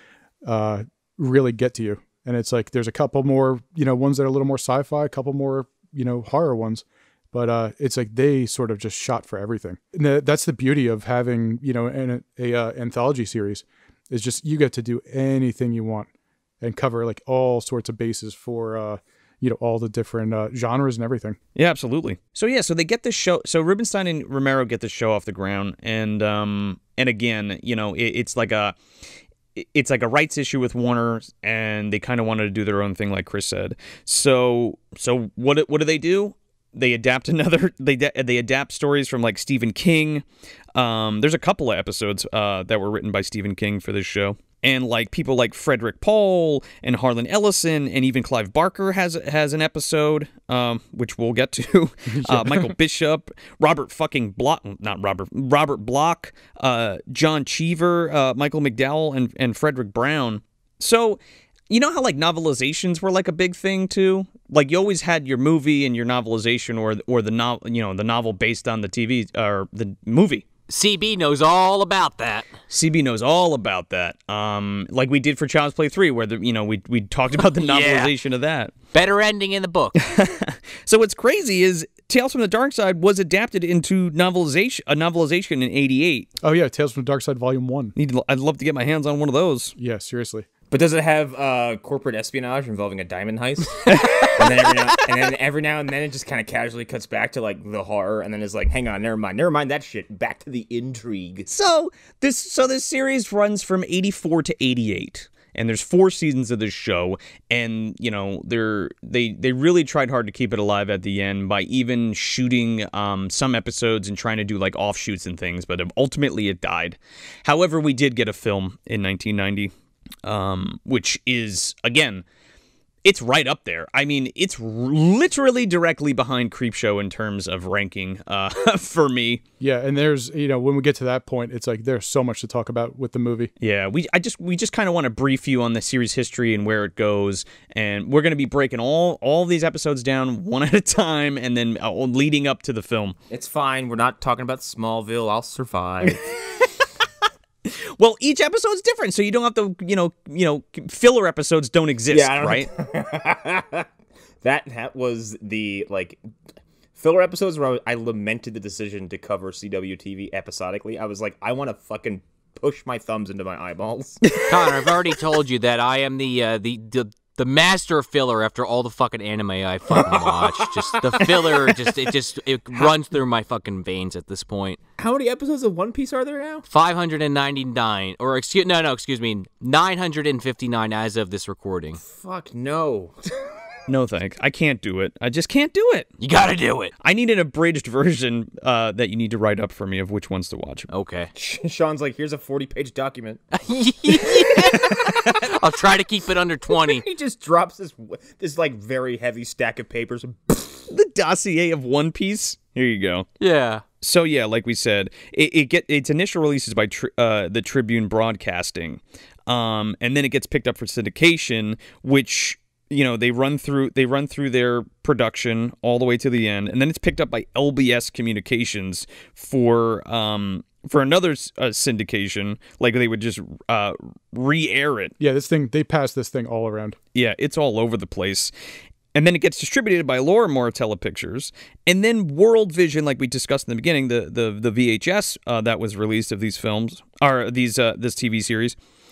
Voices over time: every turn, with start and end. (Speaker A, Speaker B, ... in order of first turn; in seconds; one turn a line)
Speaker A: 0.5-16.1
Speaker A: 16.6-21.4
Speaker B: 21.6-28.8
Speaker B: 29.6-70.5
Speaker A: 52.1-52.8
Speaker C: 70.7-72.5
Speaker B: 72.7-78.7
Speaker C: 77.5-78.1
Speaker C: 78.9-80.0
Speaker B: 80.0-86.3
Speaker A: 86.4-87.9
Speaker B: 88.0-89.8
Speaker A: 89.8-90.5
Speaker D: 90.7-101.5
Speaker B: 93.9-94.3
Speaker B: 101.5-119.7
Speaker B: 120.2-122.2
Speaker B: 123.0-129.4
Speaker A: 129.6-133.5
Speaker B: 133.6-143.2
Speaker D: 143.3-146.2
Speaker B: 146.0-146.9
Speaker B: 147.7-152.7
Speaker D: 152.1-153.9
Speaker D: 154.4-156.2
Speaker D: 157.0-164.3
Speaker C: 164.4-174.8
Speaker D: 170.0-171.8
Speaker D: 175.0-176.7
Speaker C: 176.7-182.0
Speaker D: 182.0-183.2
Speaker B: 183.9-186.1
Speaker C: 186.2-186.9
Speaker B: 187.0-190.9
Speaker C: 190.9-191.3
Speaker D: 191.3-193.4
Speaker C: 193.5-197.1
Speaker D: 196.8-200.9
Speaker B: 200.9-203.3
Speaker C: 203.4-203.8
Speaker B: 204.0-225.1
Speaker A: 225.2-227.0
Speaker B: 227.1-228.5
Speaker B: 229.1-238.8